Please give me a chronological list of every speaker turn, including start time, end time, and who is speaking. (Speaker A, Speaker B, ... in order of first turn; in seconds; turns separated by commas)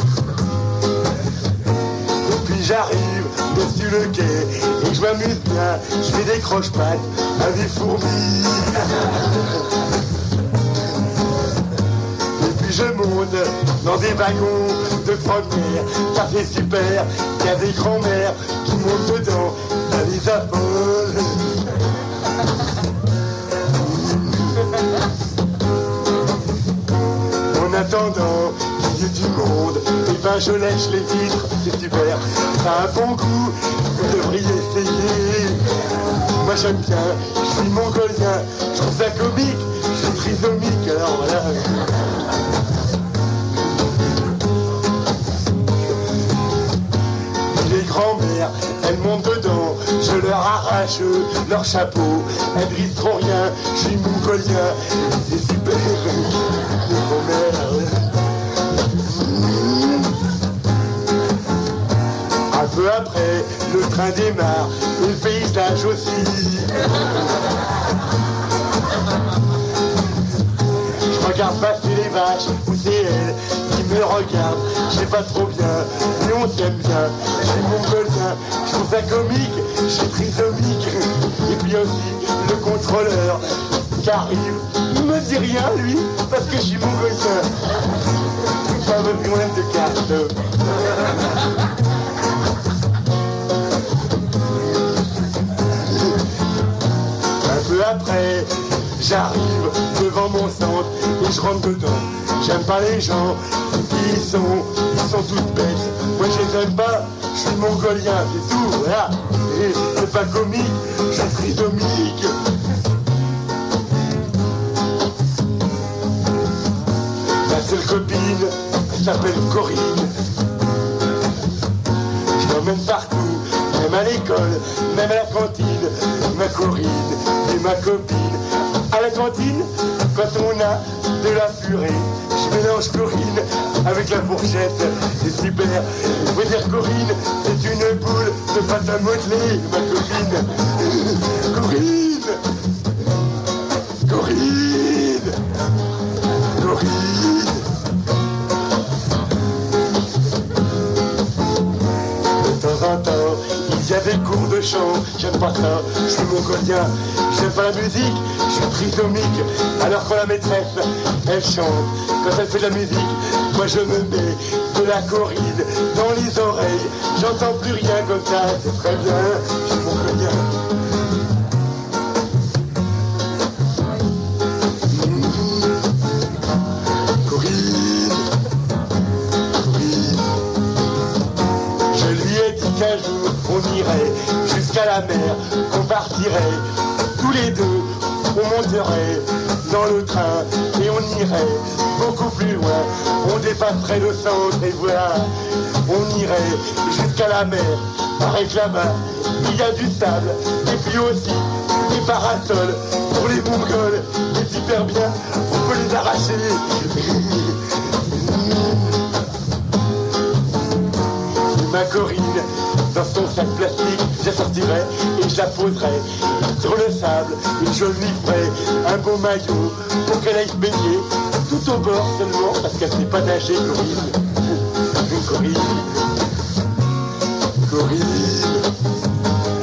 Speaker A: 2.2-9.4, Speaker A: 12.4-21.4, Speaker A: 23.7-24.6, Speaker A: 27.5-35.6, Speaker A: 36.4-41.8, Speaker A: 47.5-58.1, Speaker A: 59.0-60.1, Speaker A: 62.5-67.0, Speaker A: 71.1-83.4, Speaker A: 83.9-87.5, Speaker A: 88.7-90.4, Speaker A: 97.5-112.3, Speaker A: 117.5-120.1, Speaker A: 122.4-142.4, Speaker A: 144.1-145.4, Speaker A: 146.6-147.7, Speaker A: 152.4-170.5, Speaker A: 174.9-175.8, Speaker A: 177.2-178.3, Speaker A: 179.6-180.3, Speaker A: 181.9-186.6, Speaker A: 187.2-195.3, Speaker A: 195.8-209.0, Speaker A: 211.5-224.2, Speaker A: 225.0-226.0, Speaker A: 227.6-228.7